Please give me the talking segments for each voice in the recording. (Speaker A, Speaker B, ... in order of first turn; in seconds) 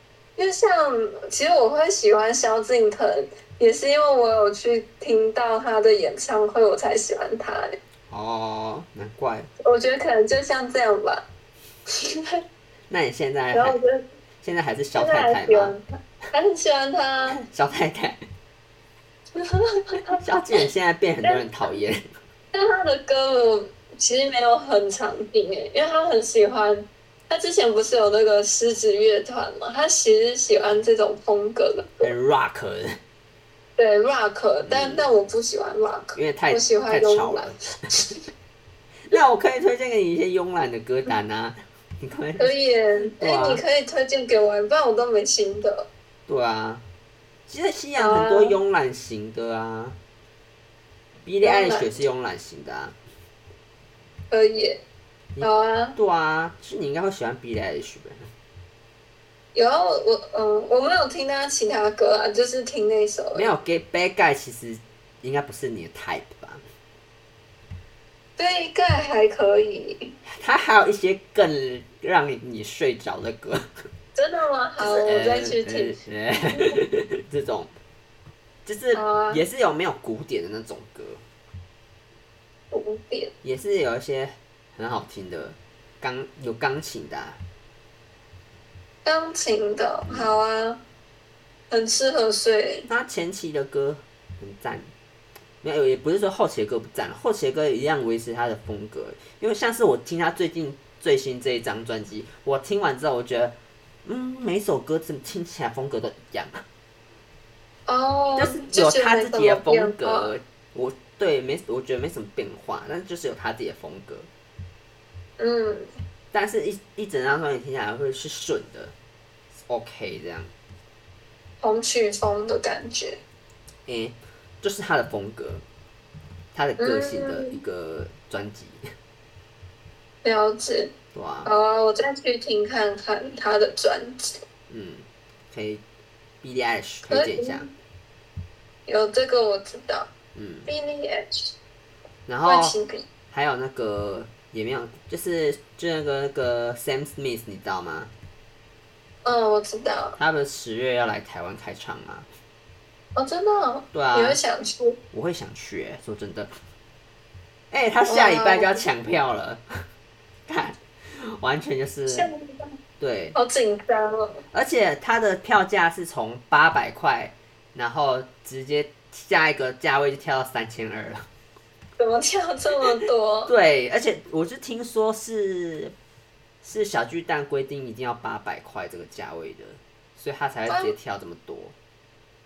Speaker A: 0.4-7.8, 9.6-11.2, 11.9-12.4, 13.5-14.0, 15.0-17.4, 19.4-20.2, 22.5-32.1, 33.8-38.2, 42.4-45.9, 48.0-48.6, 51.4-52.0, 54.3-54.8, 55.4-56.0, 59.5-63.5, 68.4-70.1, 74.1-76.0, 79.0-79.4, 82.7-83.3, 89.0-90.8, 91.7-92.9, 107.9-110.3, 115.4-115.9, 121.6-123.2, 126.8-127.5, 130.2-130.9, 131.4-134.4, 137.1-137.7, 138.9-140.1, 140.7-141.6, 142.4-143.1, 149.2-150.2, 153.2-155.0, 158.1-158.8, 162.1-162.8, 163.3-164.4, 172.0-173.5, 180.7-180.9
Speaker B: 8.1-9.5, 12.9-13.8, 14.4-15.7, 17.3-18.2, 20.2-22.0, 32.0-32.9, 34.6-35.1, 36.1-37.7, 39.1-42.5, 43.1-43.6, 46.3-46.8, 47.5-50.0, 51.2-53.0, 55.3-58.3, 63.3-66.6, 70.3-73.6, 74.8-77.7, 78.6-81.2, 83.4-87.4, 90.0-90.3, 92.9-94.9, 95.6-103.5, 104.0-106.6, 108.4-114.3, 116.3-118.9, 119.7-120.5, 123.9-125.6, 126.5-128.8, 131.1-131.5, 134.7-135.8, 136.4-137.7, 140.3-140.7, 142.3-142.8, 143.3-148.1, 150.2-152.3, 153.9-154.4, 155.1-156.5, 157.7-159.6, 160.5-162.3, 163.0-163.4, 164.5-171.2, 173.5-175.9, 176.6-181.8